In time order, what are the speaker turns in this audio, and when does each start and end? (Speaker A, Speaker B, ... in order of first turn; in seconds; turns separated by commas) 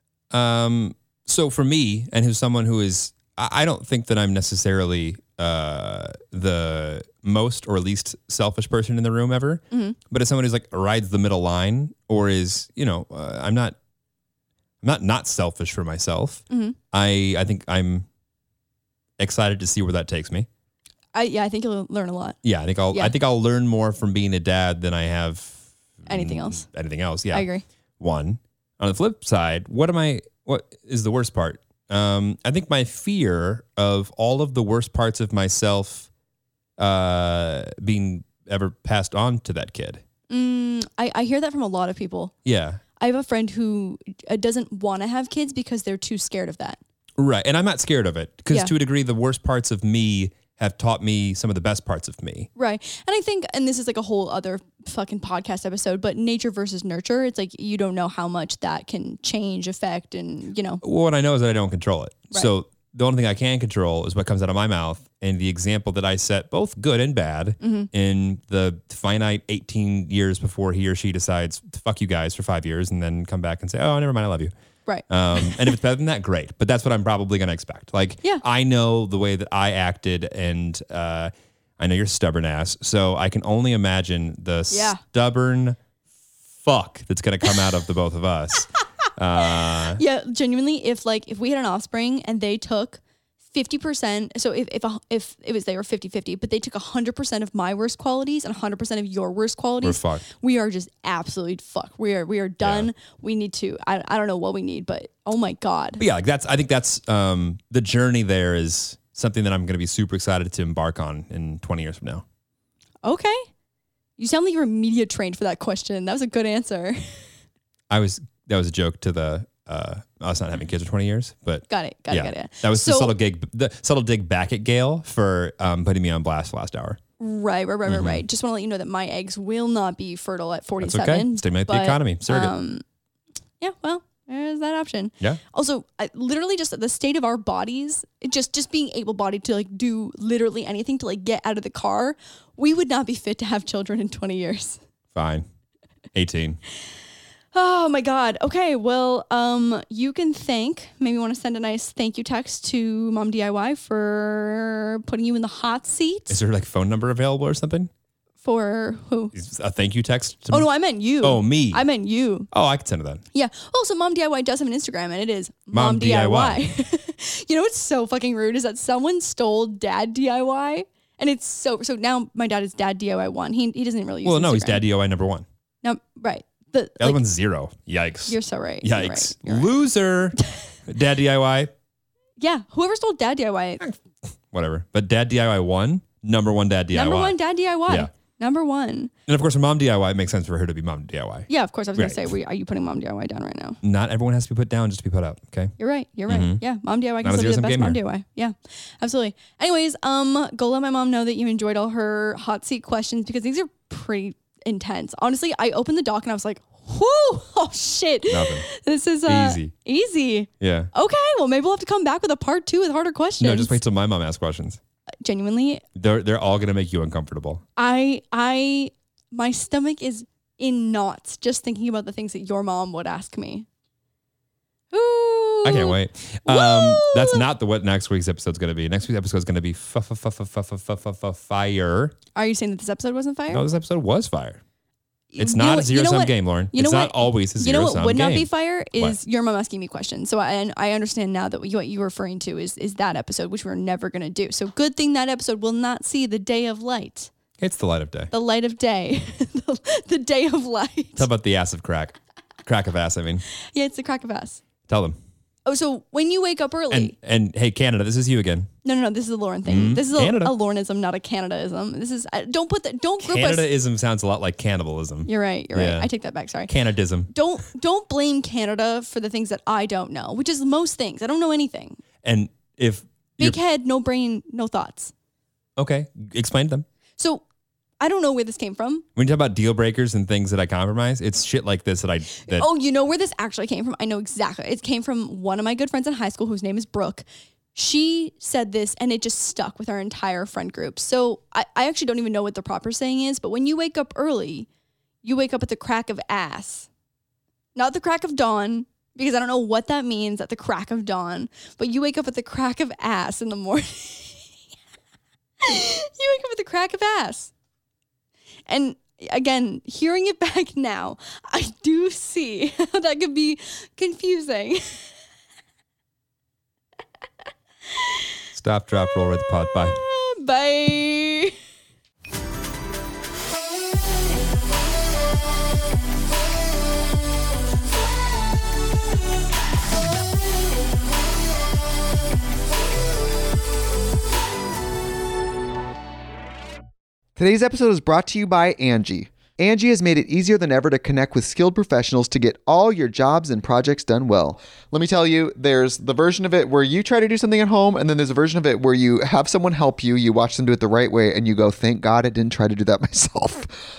Speaker A: 0.3-13.7, Speaker B: 9.7-9.9, Speaker A: 14.8-18.0, Speaker B: 16.5-16.8, Speaker A: 19.2-20.5, Speaker B: 21.1-22.4, Speaker A: 22.4-27.5, Speaker B: 26.1-26.6, Speaker B: 27.3-27.6, Speaker A: 28.0-36.1, Speaker A: 36.8-40.0, Speaker B: 40.3-42.3, Speaker A: 42.4-42.8, Speaker B: 43.0-46.8, Speaker A: 47.2-52.5, Speaker B: 52.5-60.8, Speaker A: 60.8-74.5, Speaker B: 67.6-67.9, Speaker B: 74.9-75.7, Speaker A: 75.1-85.8, Speaker B: 84.7-85.0, Speaker A: 86.6-90.0, Speaker B: 90.0-93.0, Speaker B: 93.5-106.0, Speaker A: 99.8-100.2, Speaker A: 102.6-102.9, Speaker A: 106.0-112.2, Speaker B: 113.0-113.5, Speaker B: 114.2-117.2, Speaker A: 117.9-127.0, Speaker B: 121.7-123.1, Speaker B: 127.2-132.8, Speaker A: 127.9-128.2, Speaker A: 130.8-132.5, Speaker B: 133.6-144.8, Speaker A: 145.1-145.4, Speaker A: 146.1-146.6, Speaker B: 147.5-156.4, Speaker A: 156.3-157.9, Speaker B: 158.4-159.3, Speaker A: 159.3-160.7, Speaker B: 160.5-162.5, Speaker A: 161.2-161.9, Speaker A: 162.5-163.2, Speaker B: 163.3-174.8, Speaker A: 165.7-166.6, Speaker A: 174.2-175.4, Speaker B: 175.8-177.2, Speaker A: 177.0-181.7, Speaker B: 178.3-179.7, Speaker B: 182.4-183.8, Speaker A: 184.5-187.3, Speaker B: 186.9-189.1, Speaker A: 189.3-192.3, Speaker B: 191.5-193.8, Speaker A: 193.8-195.7, Speaker B: 195.8-213.8, Speaker A: 196.3-196.6, Speaker A: 197.2-198.0, Speaker A: 208.3-208.7, Speaker A: 209.2-209.7, Speaker A: 210.6-210.9, Speaker A: 213.4-214.8, Speaker B: 215.2-215.8, Speaker A: 215.9-217.6, Speaker B: 217.8-223.7, Speaker B: 224.9-227.4, Speaker A: 225.6-232.2, Speaker B: 232.3-233.6, Speaker A: 233.5-234.6, Speaker B: 235.3-247.3, Speaker A: 235.4-239.2, Speaker A: 247.6-248.3, Speaker B: 248.3-251.3, Speaker A: 251.2-253.4, Speaker B: 253.7-254.6, Speaker A: 254.9-255.2, Speaker B: 255.7-257.1, Speaker A: 256.9-258.7, Speaker B: 258.8-263.7, Speaker A: 259.7-260.5, Speaker A: 263.2-266.1, Speaker B: 265.2-266.7, Speaker A: 266.7-267.3, Speaker B: 267.3-272.0, Speaker A: 272.2-273.6, Speaker B: 273.4-275.1, Speaker A: 275.8-276.8, Speaker B: 277.2-277.4, Speaker B: 278.0-279.0, Speaker A: 279.1-282.7, Speaker B: 282.5-287.2, Speaker B: 287.7-294.7, Speaker B: 295.2-296.9, Speaker B: 297.8-304.4, Speaker B: 305.6-307.5, Speaker B: 308.7-315.0, Speaker A: 318.5-320.0, Speaker B: 319.9-321.5, Speaker C: 337.4-353.8